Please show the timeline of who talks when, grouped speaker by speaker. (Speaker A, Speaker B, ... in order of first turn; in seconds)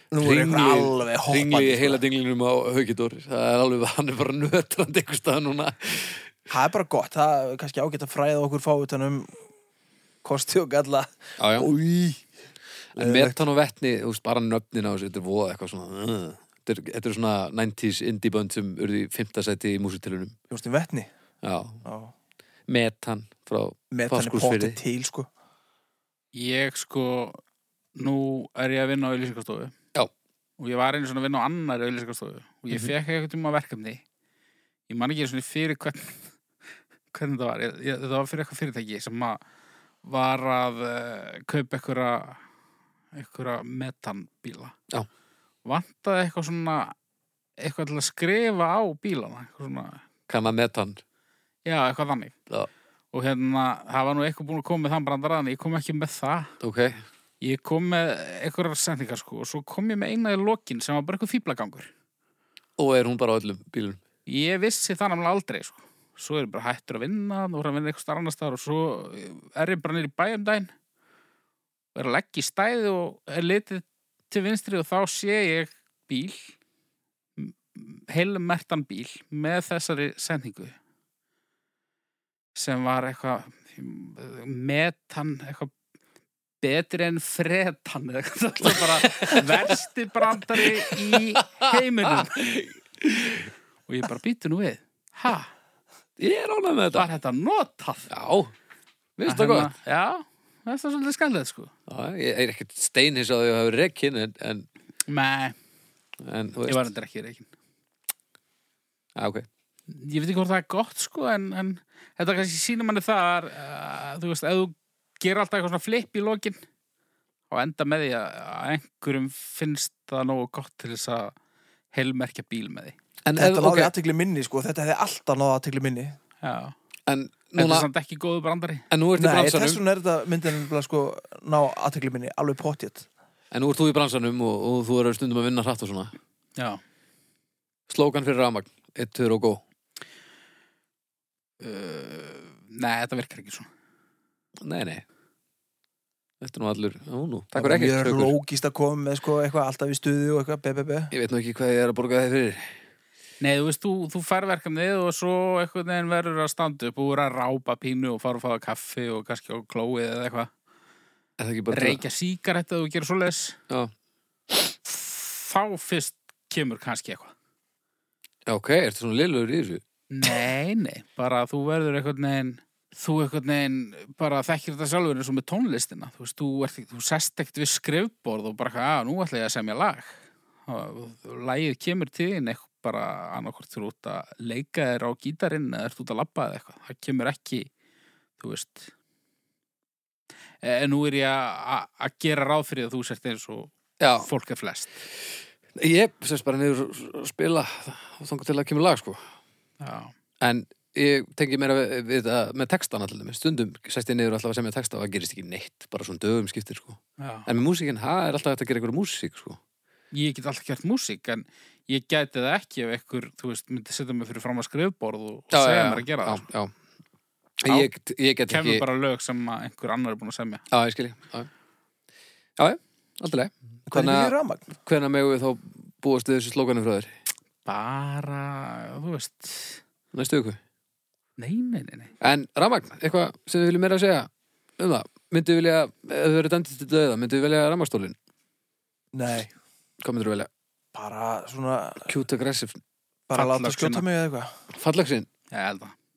Speaker A: 0.1-2.0, 6.5-9.3, 10.2-12.3, 12.9-13.4, 20.5-21.1, 21.8-22.1, 23.9-25.3, 123.4-126.2, 129.2-133.1, 147.6-151.1, 223.9-224.7, 239.1-239.5, 240.9-242.1, 243.3-244.6
Speaker B: 0.2-6.3, 11.4-11.7, 12.9-20.4, 21.4-21.8, 22.7-24.8, 50.3-51.0, 56.6-57.0, 62.8-64.0, 88.6-89.7, 90.5-93.5, 96.2-97.1, 98.1-98.5, 99.2-99.7, 101.9-104.7, 106.2-106.9, 109.2-109.5, 123.2-123.9, 127.1-127.9, 128.9-129.8, 133.5-136.1, 137.9-139.6, 144.6-145.1, 146.4-148.3, 151.1-152.7, 161.4-162.0, 168.5-169.8, 194.0-194.3, 195.8-199.2, 200.4-209.6, 215.5-216.7, 217.6-218.8, 220.7-221.5, 222.6-227.1, 230.1-230.6, 232.2-238.2, 240.0-240.5, 242.1-242.8, 244.7-245.3
Speaker C: 26.3-27.4, 28.0-29.7, 30.6-34.0, 34.9-36.3, 37.1-39.4, 40.0-42.4, 43.1-44.8, 45.6-46.9, 47.6-50.0, 51.6-52.4, 53.1-56.5, 57.4-61.9, 64.3-70.7, 72.0-76.5, 77.4-80.8, 82.5-85.7, 86.6-92.4, 93.9-95.5, 97.0-98.1, 99.3-101.7, 105.1-105.6, 106.7-107.5, 109.9-116.6, 117.5-121.3, 121.9-123.0, 126.4-126.8, 127.5-128.9, 141.6-143.7, 153.4-160.5, 161.7-163.6, 164.7-167.3, 170.1-187.7, 188.4-188.9, 190.6-195.0, 199.8-200.1, 207.2-207.5, 210.1-216.5, 218.5-220.6, 227.7-229.8, 231.4-232.1, 243.3-244.1, 245.5-245.9